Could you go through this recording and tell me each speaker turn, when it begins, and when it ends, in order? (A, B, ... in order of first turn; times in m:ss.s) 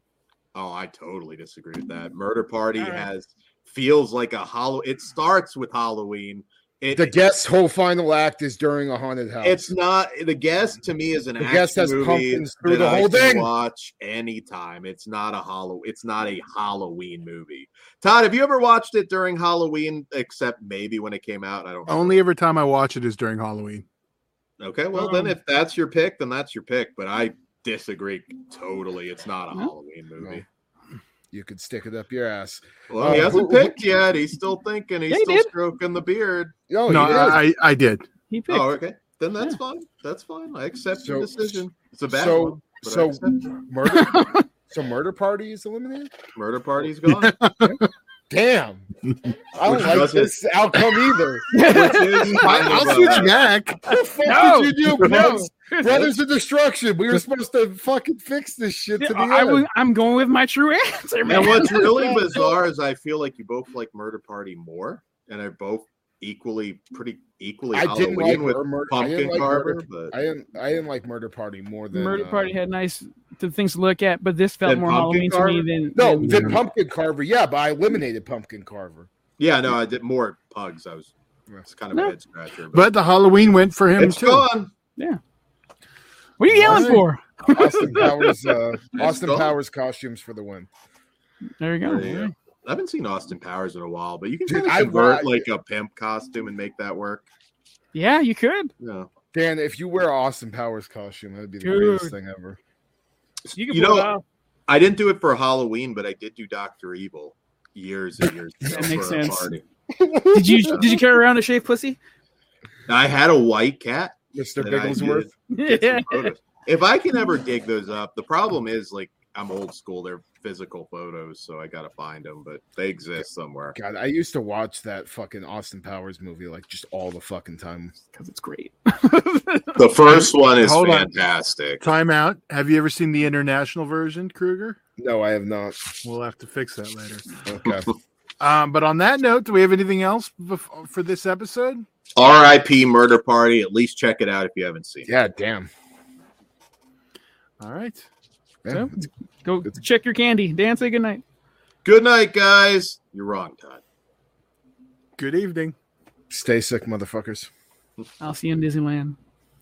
0:00.6-0:07.2 A
0:02.8-0:03.1 B
0:06.9-0:09.7 C
0:09.4-0:22.2 A
0:11.4-0:13.5 C
0:21.9-0:23.9 D
0:24.6-0:30.5 A
0:24.9-0:25.4 B
0:31.3-0:33.8 C
0:32.9-0:37.4 A
0:35.1-0:35.5 B
0:36.7-0:37.4 C
0:36.9-0:38.0 D
0:38.3-0:38.7 B
0:38.5-0:43.5 A
0:41.0-0:46.1 C
0:43.9-0:44.4 B
0:46.4-0:47.3 A
0:47.1-0:47.9 D
0:48.3-0:48.9 C
0:49.6-0:51.6 C
0:49.6-0:50.3 A
0:51.5-0:52.7 B
0:51.6-0:53.4 A
0:52.3-0:53.8 D
0:53.8-0:59.6 C
0:53.9-0:56.1 B
0:55.0-0:55.3 D
0:55.9-0:56.1 A
0:59.0-1:02.5 B
1:01.3-1:10.1 A
1:07.7-1:12.5 C
1:11.9-1:16.5 B
1:14.6-1:15.6 A
1:16.0-1:19.1 C
1:16.2-1:16.6 D
1:19.4-1:22.9 A
1:22.7-1:24.5 D
1:24.0-1:24.7 A
1:26.4-1:28.2 B
1:26.5-1:27.0 D
1:27.5-1:30.7 C
1:29.0-1:29.5 A
1:31.6-1:32.3 B
1:31.8-1:37.3 A
1:34.5-1:35.5 C
1:37.9-1:38.7 B
1:38.8-1:39.1 A
1:39.3-1:42.6 C
1:41.6-1:42.1 B
1:43.5-1:44.1 A
1:43.5-1:44.2 B
1:44.7-1:49.6 A
1:48.7-1:49.6 B
1:50.0-1:50.8 C
1:50.3-1:52.0 B
1:52.9-2:03.8 A
1:54.4-1:55.3 C
1:55.5-1:56.3 B
2:03.8-2:08.0 C
2:08.1-2:09.8 B
2:09.8-2:11.8 A
2:10.1-2:11.1 D
2:11.8-2:14.8 D
2:15.0-2:15.8 C
2:16.0-2:17.4 D
2:17.4-2:17.9 C
2:18.4-2:21.8 D
2:22.2-2:25.1 A
2:25.1-2:25.7 C
2:27.6-2:28.1 D
2:28.6-2:29.0 C
2:28.7-2:31.2 B
2:31.8-2:33.8 A
2:35.2-2:35.8 D
2:36.3-2:37.5 C
2:38.2-2:39.2 B